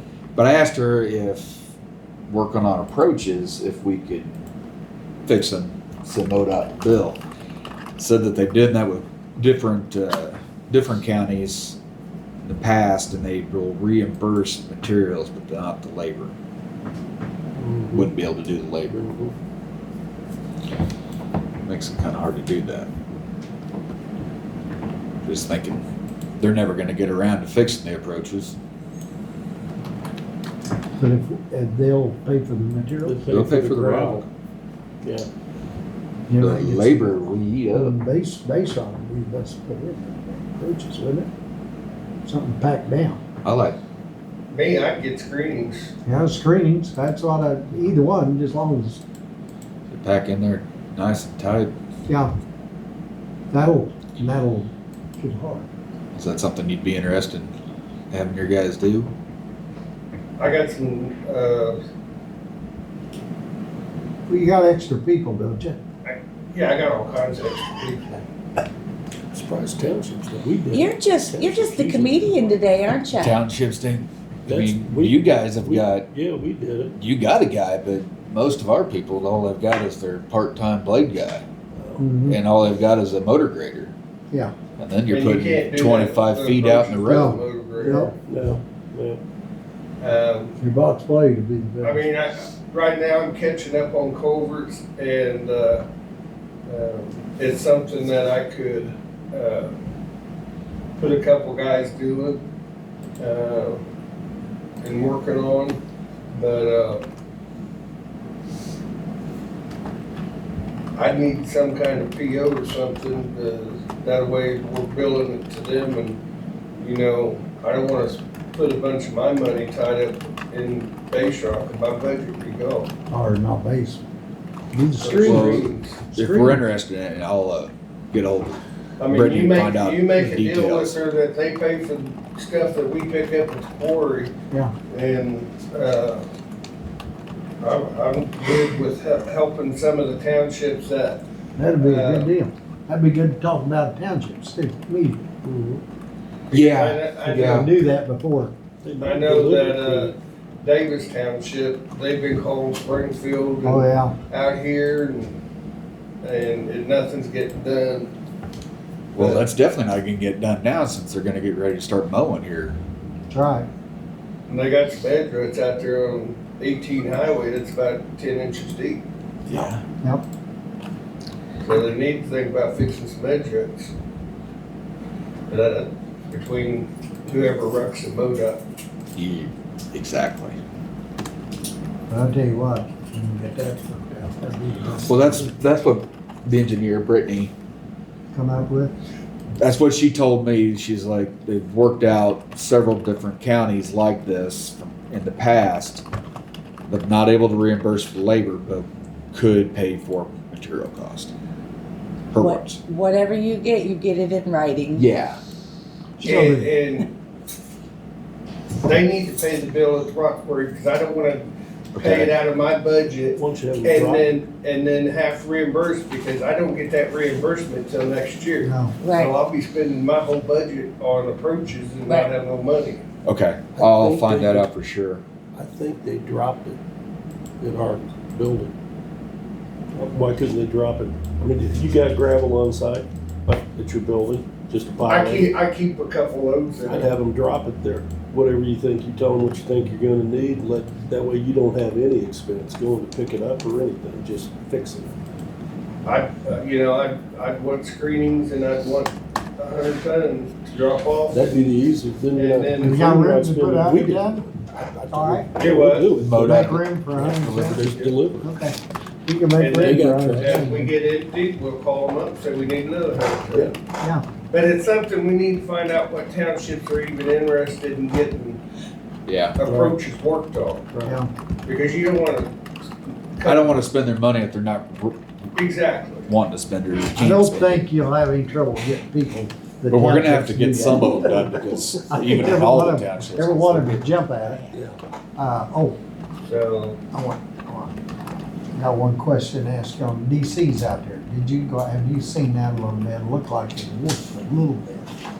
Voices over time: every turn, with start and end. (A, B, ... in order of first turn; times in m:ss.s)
0:00.3-0:01.7 A
0:02.3-0:04.4 A
0:05.2-0:07.2 A
0:08.0-0:11.8 A
0:12.4-0:16.3 A
0:17.6-0:18.1 B
0:17.9-0:19.0 A
0:18.9-0:19.3 B
0:21.6-0:22.9 A
0:25.2-0:25.8 A
0:26.4-0:28.6 A
0:31.0-0:33.2 C
0:33.0-0:34.3 B
0:33.3-0:34.2 A
0:36.3-0:41.3 C
0:36.4-0:38.0 A
0:42.2-0:43.2 C
0:43.4-0:43.8 A
0:44.5-0:45.9 D
0:46.0-0:49.0 C
0:49.9-0:51.7 A
0:52.1-0:52.3 C
0:53.5-0:55.7 C
0:56.1-0:57.5 A
0:58.1-0:59.1 A
1:00.4-1:01.8 D
1:04.3-1:05.8 C
1:06.0-1:08.2 D
1:09.3-1:12.6 B
1:10.7-1:13.3 E
1:13.1-1:16.1 A
1:14.4-1:16.9 B
1:17.0-1:21.4 A
1:21.7-1:22.1 B
1:22.0-1:22.4 C
1:22.3-1:23.9 A
1:24.8-1:27.4 A
1:25.1-1:28.1 D
1:27.0-1:28.1 C
1:27.8-1:29.2 B
1:30.0-1:30.6 D
1:30.6-1:32.0 C
1:31.8-1:35.8 D
1:36.7-1:39.7 D
1:41.0-1:42.4 D
1:43.2-1:43.8 D
1:44.8-1:45.8 D
1:46.3-1:47.0 D
1:51.0-1:56.2 D
1:56.8-2:02.9 D
2:03.1-2:04.0 C
2:04.7-2:06.6 C
2:05.0-2:06.0 D
2:05.2-2:11.0 A
2:09.0-2:14.3 D
2:14.9-2:16.2 D
2:17.6-2:21.2 D
2:21.6-2:25.2 C
2:21.8-2:22.3 D
2:25.4-2:25.8 B
2:26.5-2:27.6 D
2:26.5-2:27.7 A
2:27.2-2:28.5 C
2:28.8-2:30.1 B
2:29.0-2:35.4 D
2:33.6-2:34.1 C
2:36.2-2:38.1 D
2:39.1-2:39.4 D
2:39.2-2:42.8 A
2:43.3-2:43.7 C
2:44.5-2:49.0 D
2:49.5-2:49.8 A
2:51.6-2:53.9 D
2:55.5-2:58.6 D
2:59.1-3:00.6 A
3:02.1-3:05.5 C
3:05.1-3:07.5 A
3:08.3-3:08.9 C
3:09.6-3:16.0 A
3:16.9-3:21.3 A
3:22.3-3:22.8 A
3:22.4-3:25.0 E
3:24.9-3:25.4 A
3:26.2-3:26.7 C
3:26.2-3:27.1 D
3:28.8-3:43.0 D
3:32.0-3:32.3 A
3:33.4-3:34.3 B
3:38.6-3:38.9 C
3:39.0-3:39.4 E
3:42.0-3:42.3 E
3:43.2-3:45.2 A
3:43.8-3:44.7 B
3:45.5-3:46.8 B
3:47.6-3:48.7 B
3:50.1-3:55.5 B
3:55.1-3:57.1 D
3:56.8-4:05.2 B
4:06.0-4:11.8 D
4:11.3-4:18.5 B
4:12.3-4:13.0 D
4:12.8-4:14.5 C
4:15.1-4:15.5 C
4:15.6-4:16.2 D
4:16.1-4:17.9 A
4:16.3-4:17.8 C
4:17.9-4:18.2 D
4:18.4-4:20.9 C
4:19.6-4:23.7 D
4:19.8-4:20.7 B
4:24.0-4:24.2 C
4:24.5-4:28.6 D
4:29.2-4:29.6 A
4:29.6-4:30.9 D
4:29.6-4:30.0 B
4:30.9-4:31.2 B
4:31.0-4:31.3 C
4:31.6-4:32.5 D
4:33.3-4:33.9 D
4:33.4-4:35.2 A
4:35.5-4:36.3 D
4:36.3-4:37.8 A
4:37.2-4:44.6 C
4:39.9-4:44.1 A
4:45.4-4:46.0 C
4:46.4-4:47.0 D
4:47.1-4:48.0 C
4:48.7-4:55.1 C